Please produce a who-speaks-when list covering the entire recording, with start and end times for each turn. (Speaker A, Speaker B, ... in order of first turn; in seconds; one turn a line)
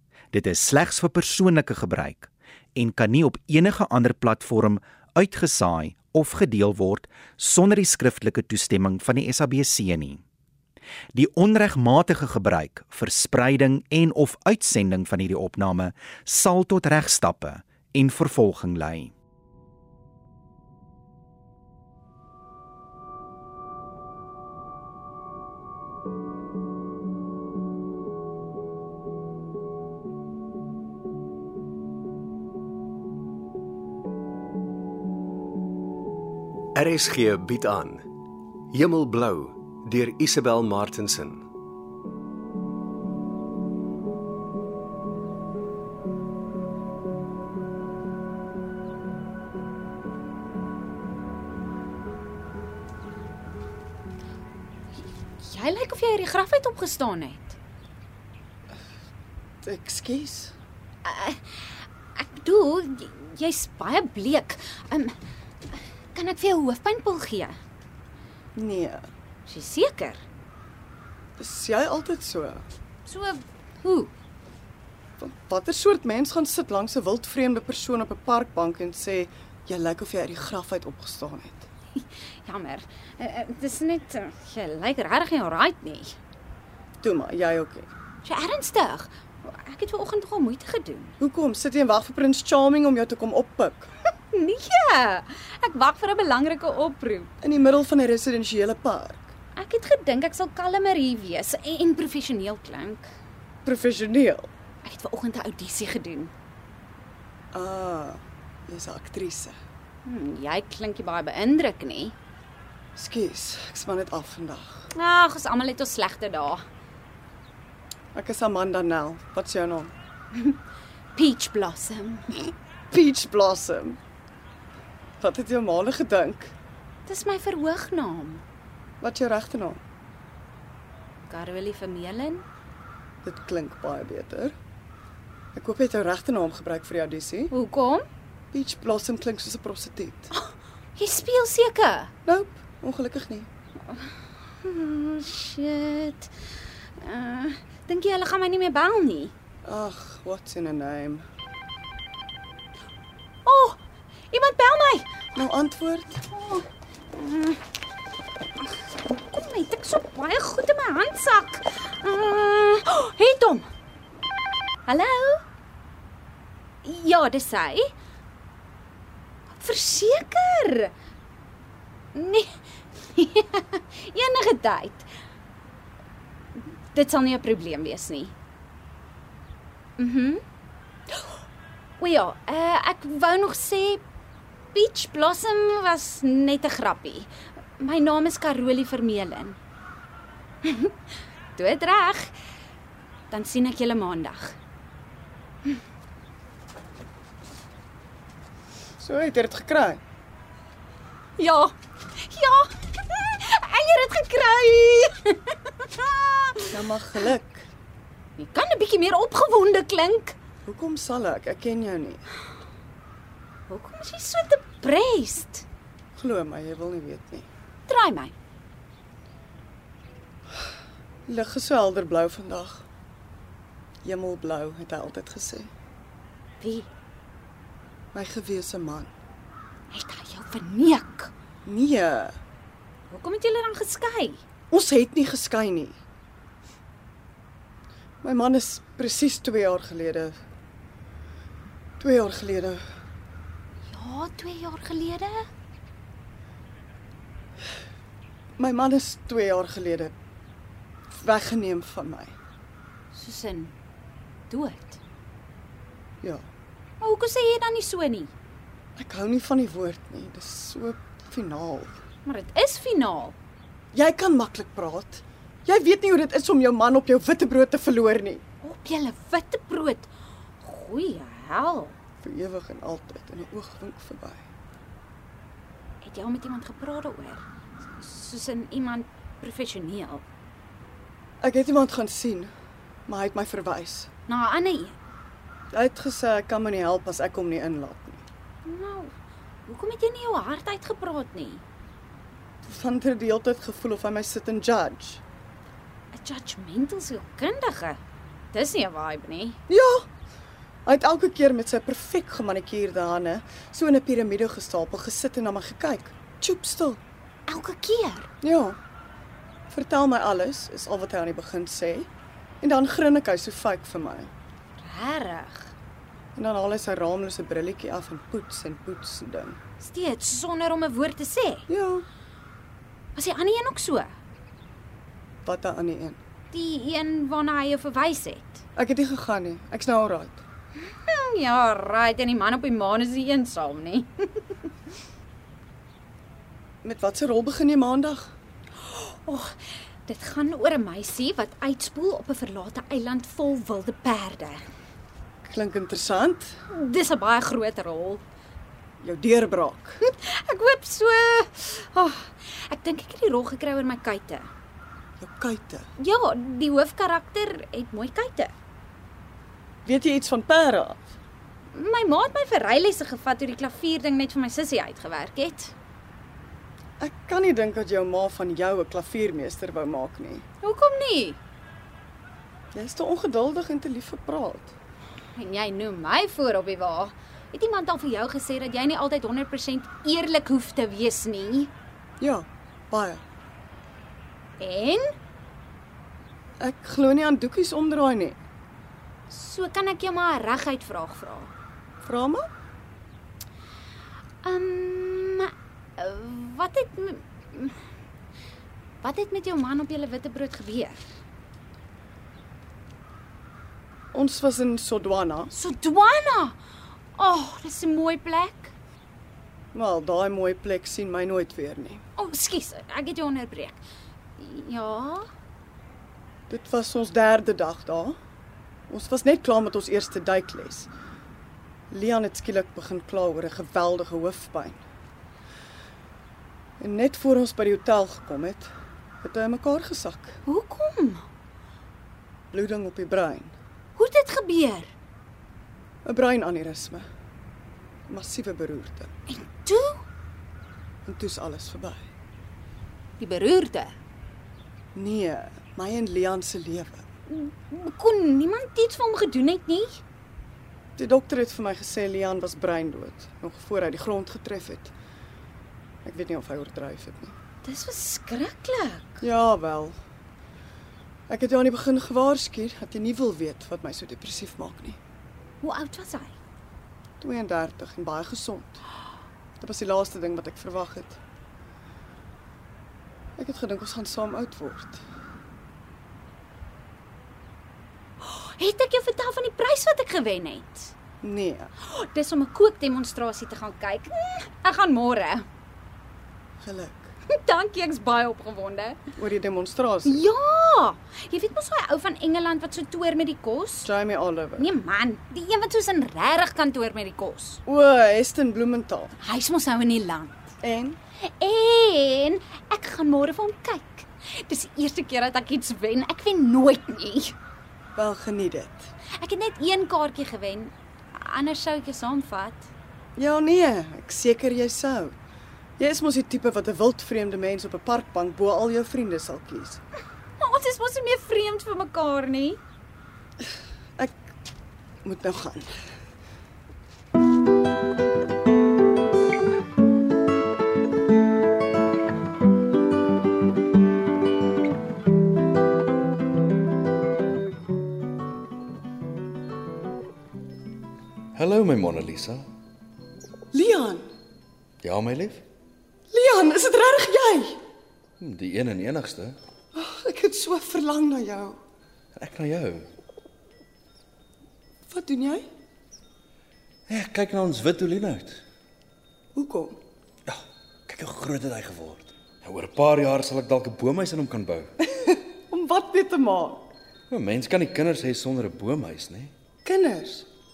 Speaker A: 0.3-10.2
Speaker A: 11.1-19.1
Speaker B: 36.7-38.0
Speaker B: 38.7-41.4
Speaker C: 55.4-57.6
Speaker D: 59.6-60.5
Speaker C: 61.0-65.1
Speaker C: 66.1-67.6
Speaker D: 68.5-69.0
Speaker C: 69.5-70.2
Speaker D: 71.4-72.7
Speaker C: 73.0-74.1
Speaker D: 75.2-81.7
Speaker C: 81.9-86.2
Speaker D: 87.0-87.9
Speaker C: 88.2-91.2
Speaker D: 91.2-93.9
Speaker C: 94.3-97.3
Speaker D: 97.4-99.3
Speaker C: 99.5-103.1
Speaker D: 103.6-104.5
Speaker C: 104.8-106.3
Speaker D: 107.5-109.5
Speaker C: 110.0-112.1
Speaker D: 113.0-114.9
Speaker C: 114.9-116.6
Speaker D: 118.1-119.9
Speaker C: 121.1-122.5
Speaker D: 122.9-124.0
Speaker D: 125.2-126.5
Speaker C: 127.0-128.4
Speaker D: 129.0-129.8
Speaker C: 131.3-132.4
Speaker D: 133.2-134.6
Speaker D: 135.5-137.5
Speaker C: 137.5-138.1
Speaker D: 138.5-140.3
Speaker C: 140.3-142.1
Speaker D: 142.2-143.5
Speaker C: 143.9-146.3
Speaker C: 147.0-149.3
Speaker D: 149.6-151.2
Speaker C: 153.4-153.8
Speaker C: 154.3-155.1
Speaker D: 155.3-156.2
Speaker C: 156.3-157.6
Speaker C: 158.6-163.7
Speaker C: 164.8-165.4
Speaker C: 166.8-167.9
Speaker C: 169.6-170.9
Speaker C: 172.1-175.1
Speaker C: 176.6-178.3
Speaker C: 180.0-180.4
Speaker C: 182.0-184.0
Speaker C: 184.7-189.6
Speaker C: 190.6-190.9
Speaker C: 191.6-192.3
Speaker C: 193.3-194.6
Speaker D: 199.0-200.0
Speaker C: 201.4-206.8
Speaker D: 206.7-207.7
Speaker C: 208.4-210.4
Speaker D: 210.6-212.2
Speaker C: 213.7-215.6
Speaker D: 216.1-217.5
Speaker C: 217.9-218.3
Speaker D: 221.3-222.8
Speaker D: 224.0-225.7
Speaker C: 226.6-226.9
Speaker D: 228.1-229.1
Speaker C: 229.9-231.3
Speaker D: 231.6-232.3
Speaker C: 233.1-234.4
Speaker D: 234.7-235.9
Speaker D: 238.2-240.3
Speaker D: 242.0-242.8
Speaker C: 243.9-245.5
Speaker D: 248.6-250.1
Speaker D: 251.1-252.3
Speaker C: 253.1-253.7
Speaker C: 254.5-255.0
Speaker D: 256.2-256.4
Speaker C: 257.0-258.3
Speaker D: 259.0-261.9
Speaker C: 262.2-263.4
Speaker D: 263.9-268.4
Speaker C: 268.6-270.1
Speaker C: 270.6-272.0
Speaker D: 272.2-274.4
Speaker C: 276.0-277.4
Speaker C: 278.0-280.2
Speaker D: 281.4-282.5
Speaker D: 283.1-284.1
Speaker C: 284.3-284.9
Speaker D: 285.7-288.2
Speaker C: 288.6-289.1
Speaker C: 289.6-291.6
Speaker D: 292.6-295.2
Speaker C: 296.1-298.0
Speaker C: 298.5-299.6
Speaker D: 299.7-300.1
Speaker D: 300.9-307.0
Speaker C: 307.5-308.3
Speaker D: 308.4-308.8
Speaker D: 309.7-312.1
Speaker D: 312.6-314.3
Speaker C: 314.8-315.7
Speaker D: 316.3-319.6
Speaker C: 319.8-321.6
Speaker D: 321.7-322.1
Speaker C: 323.1-324.1
Speaker D: 325.4-326.2
Speaker C: 326.5-328.6
Speaker D: 328.8-330.4
Speaker C: 331.0-334.5
Speaker D: 336.8-338.3
Speaker C: 338.8-344.6
Speaker D: 345.4-346.6
Speaker C: 346.7-348.2
Speaker D: 349.0-350.0
Speaker C: 350.0-354.5
Speaker D: 355.2-355.9
Speaker C: 356.0-358.5
Speaker D: 359.8-361.0
Speaker C: 361.7-365.7
Speaker D: 367.0-370.4
Speaker C: 370.6-371.4
Speaker D: 372.7-374.7
Speaker C: 375.4-381.7
Speaker D: 382.2-383.2
Speaker C: 384.6-385.1
Speaker D: 386.6-388.4
Speaker C: 389.3-391.5
Speaker D: 392.0-392.5
Speaker C: 394.4-397.8
Speaker C: 399.0-401.0
Speaker D: 404.1-405.5
Speaker C: 405.5-406.6
Speaker C: 407.1-408.7
Speaker D: 409.7-412.0
Speaker C: 412.2-413.8
Speaker C: 414.4-415.3
Speaker D: 416.5-418.2
Speaker D: 418.9-420.9
Speaker D: 421.9-424.8
Speaker D: 426.8-428.7
Speaker D: 429.2-430.4
Speaker C: 430.4-431.2
Speaker D: 432.5-433.5
Speaker C: 433.9-434.9
Speaker D: 436.0-437.1
Speaker D: 438.1-439.1
Speaker C: 439.3-440.0
Speaker D: 441.1-442.0
Speaker C: 443.2-443.9
Speaker D: 444.9-447.0
Speaker C: 447.3-450.0
Speaker D: 451.0-454.9
Speaker D: 456.0-457.3
Speaker C: 457.6-459.2
Speaker D: 459.2-460.0
Speaker D: 461.3-465.0
Speaker C: 465.6-466.3
Speaker D: 467.2-468.8
Speaker D: 469.6-471.2
Speaker D: 473.4-475.0
Speaker C: 478.2-480.9
Speaker D: 481.2-481.7
Speaker C: 481.8-485.4
Speaker D: 486.6-487.1
Speaker C: 487.3-489.0
Speaker D: 489.2-490.2
Speaker C: 490.0-493.9
Speaker D: 493.8-494.7
Speaker C: 494.6-497.6
Speaker D: 497.6-499.1
Speaker C: 499.2-500.5
Speaker D: 500.6-501.0
Speaker C: 501.2-507.3
Speaker D: 507.9-508.9
Speaker C: 509.2-512.7
Speaker D: 513.1-515.1
Speaker D: 515.8-519.8
Speaker C: 520.4-522.6
Speaker D: 525.0-525.7
Speaker E: 541.3-542.5
Speaker D: 543.5-544.1
Speaker E: 544.8-545.4
Speaker D: 546.1-547.6
Speaker E: 548.2-549.4
Speaker D: 549.7-551.6
Speaker E: 552.1-552.9
Speaker D: 554.9-555.5
Speaker E: 556.9-558.4
Speaker D: 559.3-559.8
Speaker E: 560.3-564.7
Speaker D: 564.8-566.7
Speaker E: 567.1-569.3
Speaker D: 569.6-570.3